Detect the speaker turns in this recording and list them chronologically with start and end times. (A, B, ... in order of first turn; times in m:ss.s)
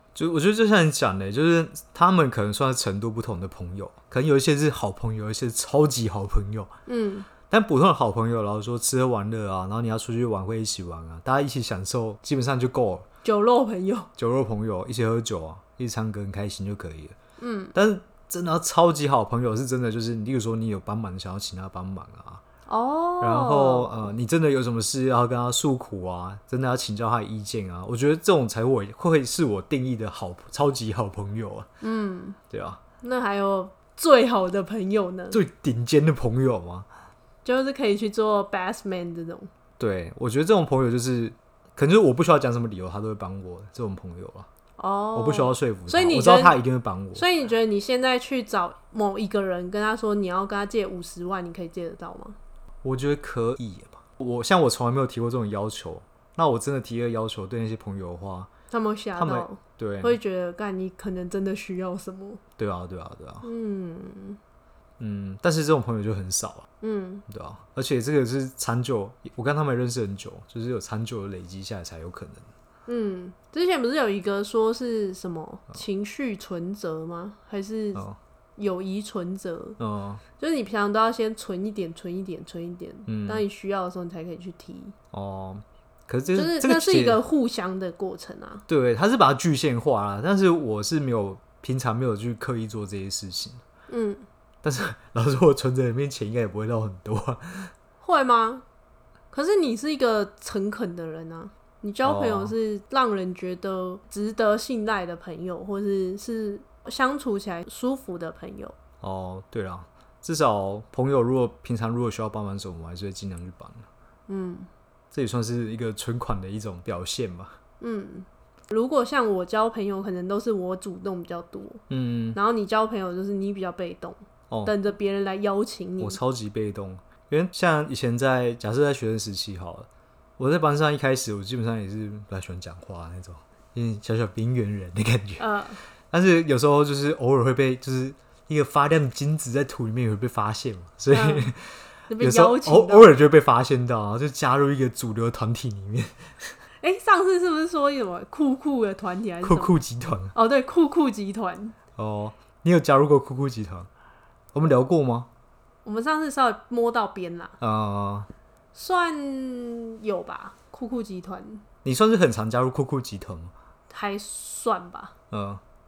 0:00.1-0:06.7 A
0:06.9-0:07.3 B
0:07.5-0:13.0 A
0:13.2-0:14.1 B
0:14.2-0:17.1 A
0:17.4-0:17.7 B
0:17.7-0:22.4 A
0:22.7-0:24.1 B
0:23.2-0:31.7 A
0:31.8-0:32.4 B
0:32.5-0:32.8 A
0:33.0-0:35.4 B
0:35.3-0:36.9 A
0:37.4-0:39.5 B
0:39.8-0:44.5 A
0:44.8-0:46.6 B
0:45.1-0:47.2 A
0:47.1-0:52.4 B
0:52.8-0:58.5 A
0:58.7-1:02.4 B
0:59.1-1:00.2 A
1:02.6-1:03.5 A
1:03.4-1:04.4 B
1:05.0-1:06.7 A
1:06.8-1:07.2 B
1:07.3-1:12.5 A
1:12.8-1:18.0 B
1:18.6-1:19.8 B
1:19.8-1:20.2 A
1:20.4-1:24.9 B
1:23.1-1:23.4 A
1:25.1-1:27.2 A
1:26.3-1:28.6 B
1:28.7-1:33.6 A
1:33.9-1:34.2 B
1:34.6-1:37.7 A
1:38.0-1:38.6 B
1:39.3-1:48.7 B
1:42.0-1:42.5 A
1:49.0-1:53.9 A
1:54.3-1:54.7 B
1:55.1-1:57.6 A
1:57.8-2:01.8 B
2:01.9-2:02.4 A
2:02.3-2:06.2 B
2:06.0-2:09.9 A
2:10.4-2:15.4 A
2:15.4-2:15.8 B
2:16.1-2:26.2 A
2:21.1-2:21.5 B
2:22.1-2:23.1 B
2:26.8-2:29.7 B
2:29.4-2:30.3 A
2:30.3-2:31.7 B
2:32.0-2:33.9 A
2:34.5-2:35.3 A
2:35.8-2:37.5 B
2:37.6-2:38.3 A
2:38.7-2:41.6 B
2:41.8-2:43.5 A
2:43.9-2:45.1 B
2:45.3-2:45.6 A